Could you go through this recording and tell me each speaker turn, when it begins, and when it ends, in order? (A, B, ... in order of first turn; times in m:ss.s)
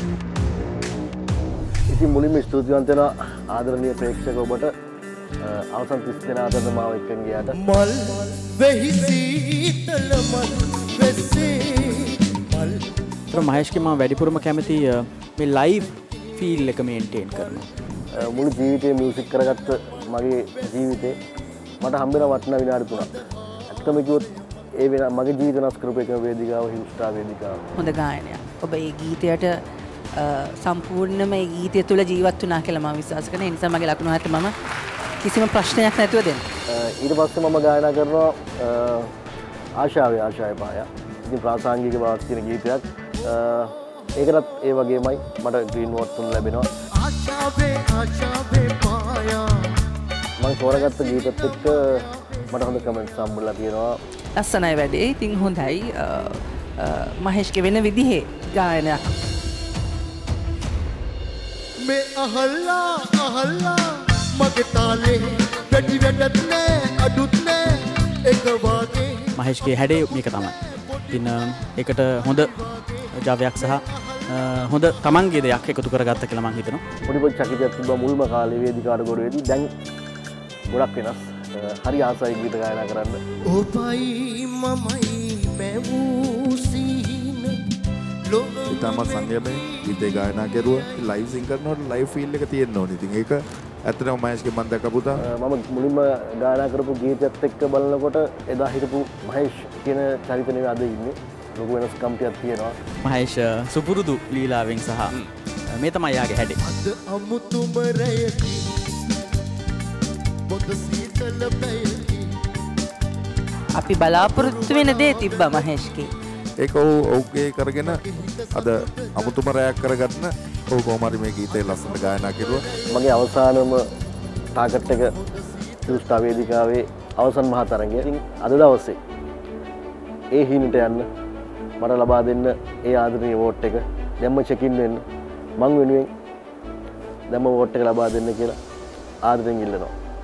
0:01.9-0:04.7 A
0:05.4-0:07.6 A
0:07.6-0:12.9 B
0:13.3-0:17.7 C
0:18.1-0:21.2 A
0:21.8-0:27.6 A
0:27.7-0:34.5 D
0:35.2-0:36.4 D
0:36.7-0:39.1 A
0:39.8-0:46.7 A
0:46.9-0:49.8 B
0:50.4-0:54.0 A
0:50.9-0:52.4 B
0:54.4-0:59.1 D
1:01.8-1:09.5 B
1:09.3-1:16.8 C
1:10.4-1:11.2 B
1:17.0-1:19.7 A
1:20.7-1:23.2 A
1:23.4-1:27.7 B
1:28.2-1:31.0 B
1:28.7-1:35.2 E
1:35.1-1:42.8 A
1:43.0-1:46.6 C
1:46.6-1:48.9 B
1:50.5-1:52.4 B
1:53.7-1:56.1 D
1:54.1-1:56.1 B
1:56.6-1:58.0 E
1:58.0-1:59.1 B
1:58.5-2:02.7 E
2:02.0-2:02.8 B
2:02.9-2:03.8 A
2:04.5-2:05.1 A
2:05.8-2:09.0 A
2:10.3-2:11.0 A
2:11.8-2:15.0 A
2:15.6-2:16.1 A
2:17.3-2:18.6 A
2:19.2-2:19.9 A